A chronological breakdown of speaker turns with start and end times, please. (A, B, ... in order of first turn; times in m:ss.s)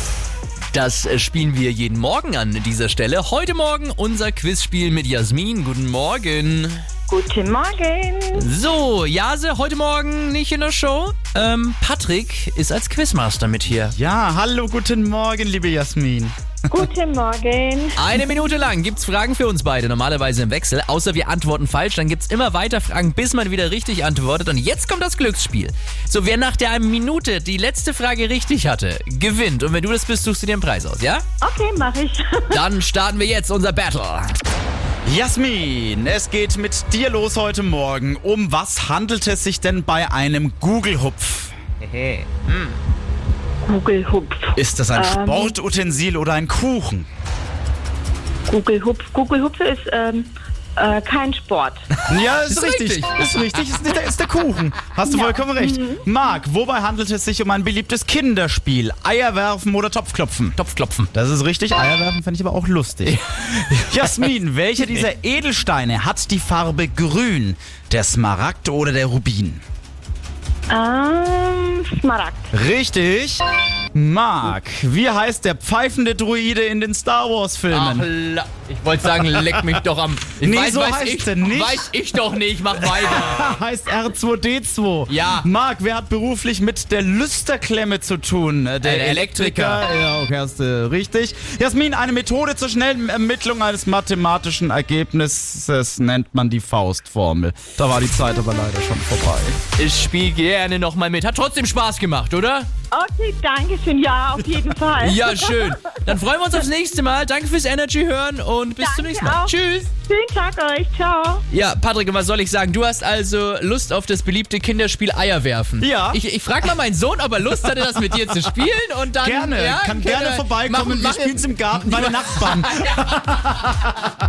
0:00.7-0:06.8 A
0:07.1-0:08.5 B
0:08.4-0:14.0 A
0:13.9-0:16.8 C
0:16.7-0:18.3 B
0:18.0-0:31.2 A
0:31.4-0:32.6 B
0:32.5-0:34.3 A
0:35.1-0:41.6 C
0:42.0-0:42.5 A
0:43.6-0:45.6 B
0:44.6-0:47.1 C
0:48.5-0:51.8 B
0:52.1-0:53.2 A
0:52.1-1:00.6 C
0:55.0-0:56.0 B
1:00.6-1:01.1 A
1:01.1-1:09.6 C
1:03.1-1:04.2 A
1:10.7-1:12.5 B
1:12.5-1:13.4 C
1:13.9-1:18.1 C
1:17.7-1:23.6 A
1:19.2-1:19.7 C
1:20.4-1:22.0 C
1:22.7-1:39.6 C
1:25.1-1:25.5 A
1:28.8-1:29.8 A
1:39.8-1:42.7 A
1:42.9-1:45.8 B
1:45.0-1:49.9 A
1:48.8-1:51.4 B
1:51.5-2:03.1 A
1:55.8-1:56.2 C
1:57.9-1:58.5 C
1:59.2-2:04.0 C